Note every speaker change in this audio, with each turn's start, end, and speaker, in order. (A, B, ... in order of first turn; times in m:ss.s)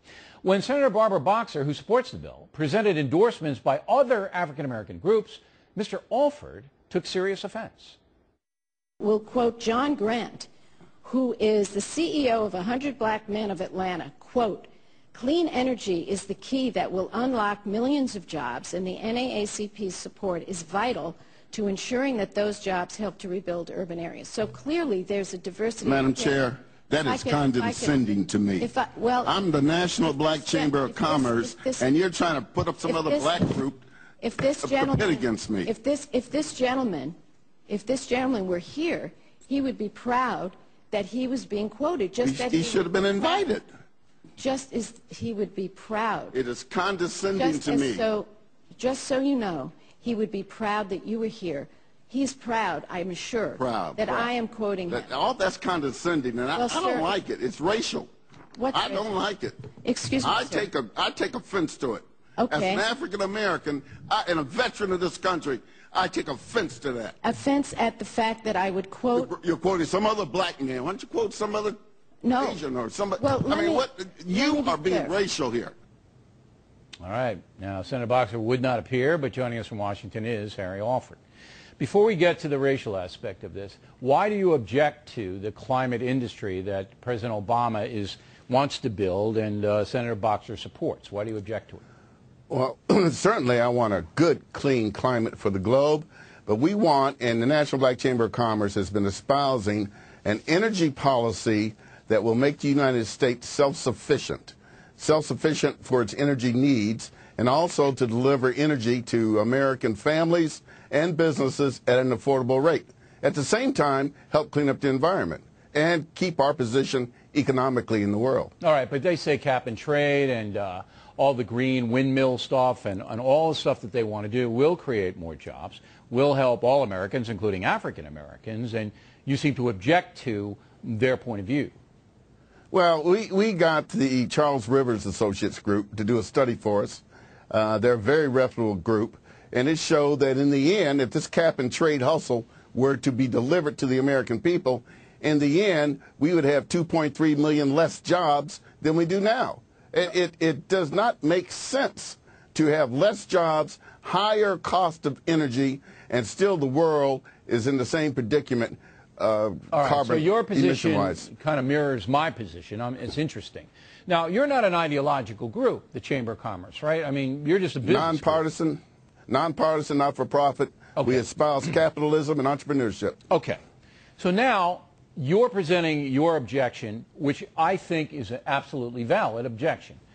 0:00.4-0:08.0 A
0:09.0-0:10.5 B
0:11.0-0:28.0 B
0:25.8-0:28.7 C
0:28.6-0:29.4 B
0:29.2-0:33.8 C
0:30.0-0:31.8 B
0:32.8-0:33.6 B
0:34.2-0:37.2 B
0:34.6-0:35.7 C
0:37.7-0:43.5 B
0:42.2-0:43.6 C
0:44.4-0:46.4 B
0:46.3-0:48.0 C
0:47.4-0:55.1 B
0:53.6-0:54.3 C
0:54.9-0:58.1 C
0:56.5-0:57.1 B
0:58.6-0:59.1 B
0:58.7-0:59.6 C
0:59.8-1:00.7 B
1:00.2-1:07.2 C
1:02.4-1:02.8 B
1:07.2-1:09.3 B
1:09.1-1:11.8 C
1:12.2-1:12.6 B
1:12.4-1:15.7 C
1:13.2-1:15.2 B
1:17.0-1:21.2 A
1:21.8-1:31.8 A
1:32.5-1:58.5 C
1:58.6-2:11.7 A
2:12.7-2:41.3 C
2:39.7-2:48.4 A
2:47.8-2:53.2 C
2:51.0-2:51.2 A
2:53.3-2:53.6 A
2:54.2-3:00.0 A